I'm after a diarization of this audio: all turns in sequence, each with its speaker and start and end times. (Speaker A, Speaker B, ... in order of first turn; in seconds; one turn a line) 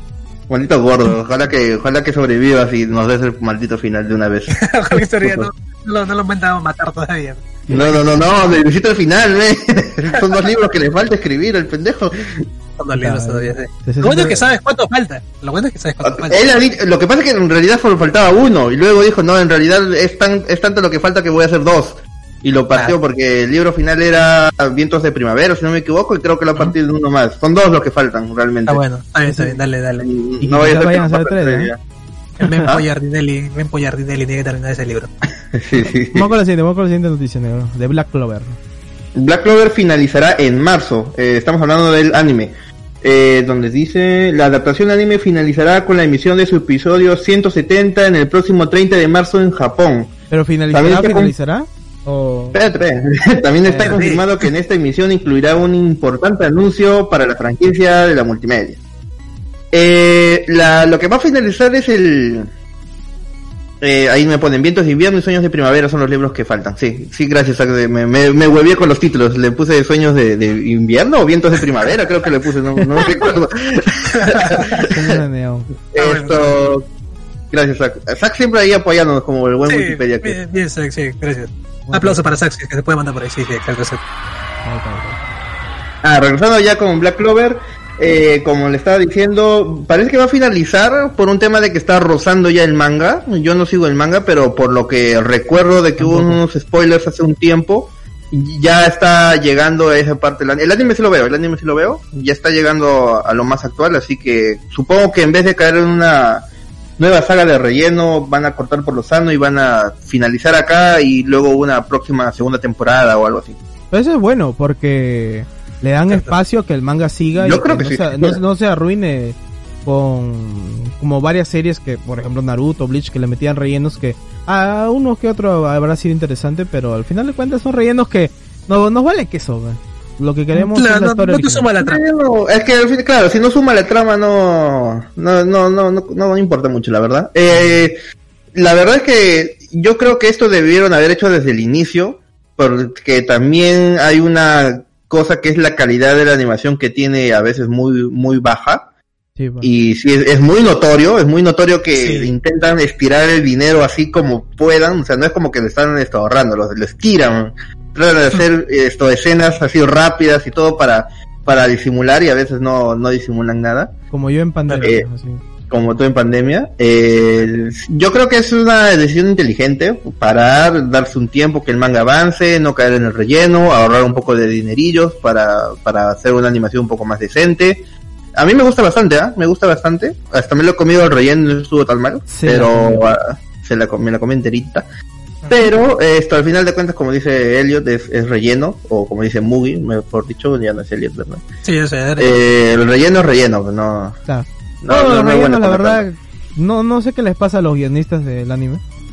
Speaker A: 0.5-4.6
Speaker B: 4.5-7.8
Speaker A: 5.2-5.5
Speaker A: 7.7-12.4
Speaker B: 10.0-10.4
Speaker B: 12.8-16.4
Speaker C: 12.9-14.4
Speaker A: 16.0-28.8
Speaker B: 28.7-30.1
Speaker A: 30.0-31.8
Speaker C: 30.4-31.7
Speaker C: 32.4-32.7
Speaker B: 32.4-35.1
Speaker A: 35.5-36.3
Speaker C: 36.1-38.6
Speaker A: 39.1-50.1
Speaker C: 50.3-52.6
Speaker A: 50.7-51.3
Speaker A: 52.5-58.8
Speaker C: 53.6-54.0
Speaker B: 53.9-54.2
Speaker A: 59.7-62.5
Speaker A: 63.8-75.2
Speaker B: 74.2-74.8
Speaker C: 74.9-75.7
Speaker A: 75.9-76.8
Speaker B: 76.0-76.6
Speaker A: 77.5-80.4
Speaker B: 79.7-84.0
Speaker C: 81.9-82.2
Speaker C: 84.6-85.2
Speaker A: 86.0-106.4
Speaker C: 96.0-96.4
Speaker A: 107.0-113.6
Speaker C: 113.9-131.7
Speaker B: 116.1-116.3
Speaker A: 117.3-118.4
Speaker B: 130.5-132.0
Speaker A: 131.8-137.9
Speaker A: 138.5-148.9
Speaker C: 149.4-149.7
Speaker A: 149.6-163.9
Speaker B: 151.9-152.3
Speaker C: 164.1-165.4
Speaker A: 165.7-177.8
Speaker A: 178.3-184.8
Speaker C: 182.3-183.0
Speaker A: 185.5-191.4
Speaker B: 191.6-192.3
Speaker A: 192.2-194.2
Speaker C: 194.3-198.8
Speaker A: 194.8-196.0